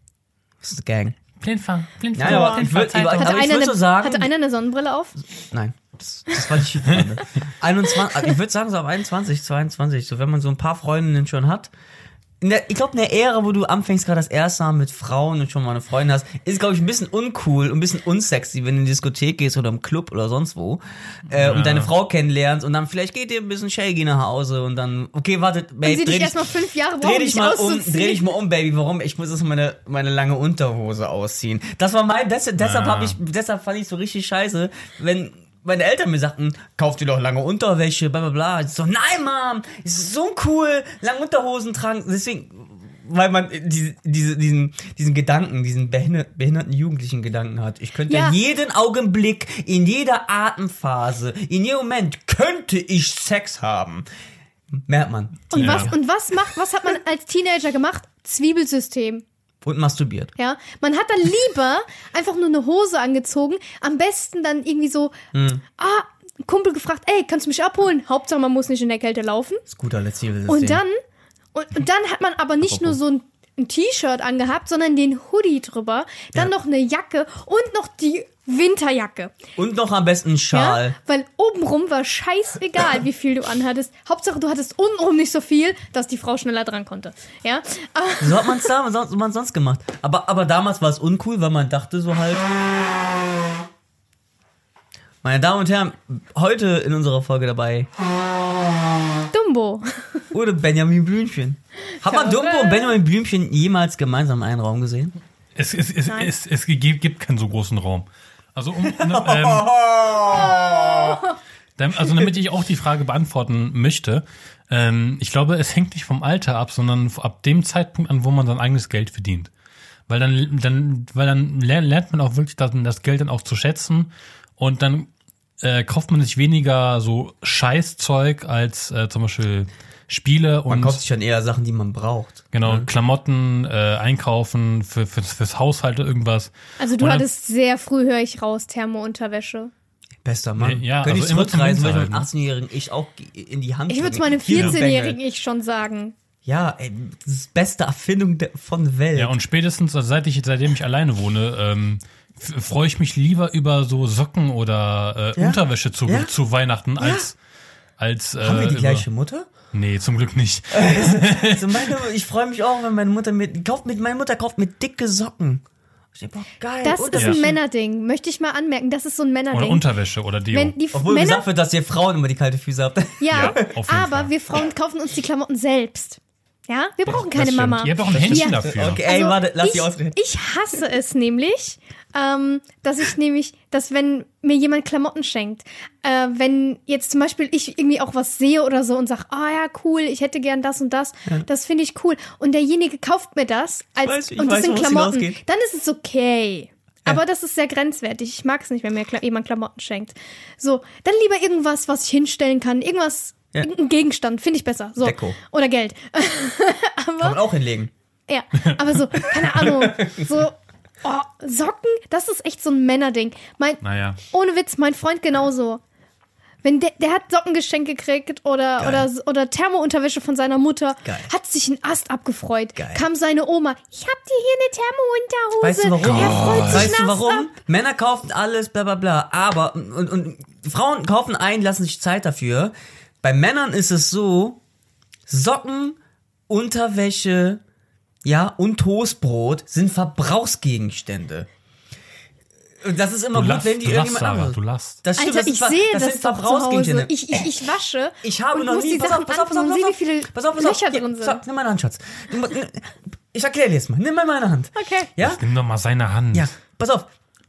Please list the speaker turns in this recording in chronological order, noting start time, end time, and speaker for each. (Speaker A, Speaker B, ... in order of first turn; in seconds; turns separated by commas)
Speaker A: 0.6-1.2, Speaker B: 1.4-3.4, Speaker A: 2.1-4.3, Speaker C: 2.2-5.2, Speaker A: 5.5-11.7, Speaker A: 12.4-54.0, Speaker B: 21.3-21.9, Speaker C: 25.8-28.3, Speaker B: 32.6-33.2, Speaker C: 48.1-48.4, Speaker A: 54.7-55.9, Speaker C: 55.5-59.2, Speaker B: 55.5-55.9, Speaker A: 59.6-60.3, Speaker C: 60.4-65.1, Speaker A: 65.3-65.6, Speaker C: 65.8-69.6, Speaker A: 69.7-70.8, Speaker C: 70.5-71.0, Speaker C: 71.5-79.3, Speaker A: 72.7-72.9, Speaker A: 79.6-81.0, Speaker C: 80.5-88.7, Speaker A: 88.2-92.6, Speaker A: 95.2-97.9, Speaker C: 99.3-100.2, Speaker A: 100.3-105.1, Speaker C: 102.0-103.0, Speaker B: 105.5-109.7, Speaker A: 108.9-111.2, Speaker C: 110.3-111.4, Speaker B: 111.8-119.5, Speaker B: 120.1-125.1, Speaker B: 125.6-131.0, Speaker A: 130.7-132.9, Speaker B: 132.5-137.2, Speaker C: 136.8-139.7, Speaker A: 140.2-145.2, Speaker B: 140.6-142.3, Speaker C: 143.9-146.1, Speaker A: 146.4-149.3, Speaker B: 149.2-157.3, Speaker A: 155.3-156.3, Speaker A: 157.0-157.3, Speaker B: 158.0-159.1, Speaker A: 158.4-159.5, Speaker B: 159.7-161.9, Speaker A: 160.7-165.6, Speaker A: 166.1-167.6, Speaker C: 166.8-169.8, Speaker B: 169.5-170.8, Speaker C: 170.5-171.4, Speaker A: 170.9-173.6, Speaker C: 173.2-207.4, Speaker B: 173.3-174.3, Speaker B: 177.1-179.0, Speaker A: 178.1-180.2, Speaker A: 194.0-195.4, Speaker A: 205.0-205.4, Speaker A: 207.2-207.9, Speaker C: 208.3-215.8, Speaker A: 209.4-210.3, Speaker B: 213.8-214.2, Speaker C: 216.6-227.5, Speaker A: 218.8-219.1, Speaker A: 221.0-221.3, Speaker A: 222.8-223.0, Speaker A: 225.6-234.6, Speaker B: 226.0-226.9, Speaker A: 235.3-236.0, Speaker A: 236.5-237.6, Speaker A: 238.2-241.5, Speaker A: 242.8-247.5, Speaker B: 243.3-245.0, Speaker C: 245.2-251.4, Speaker A: 248.2-255.4, Speaker C: 254.7-255.1, Speaker B: 255.2-256.5, Speaker A: 256.3-257.1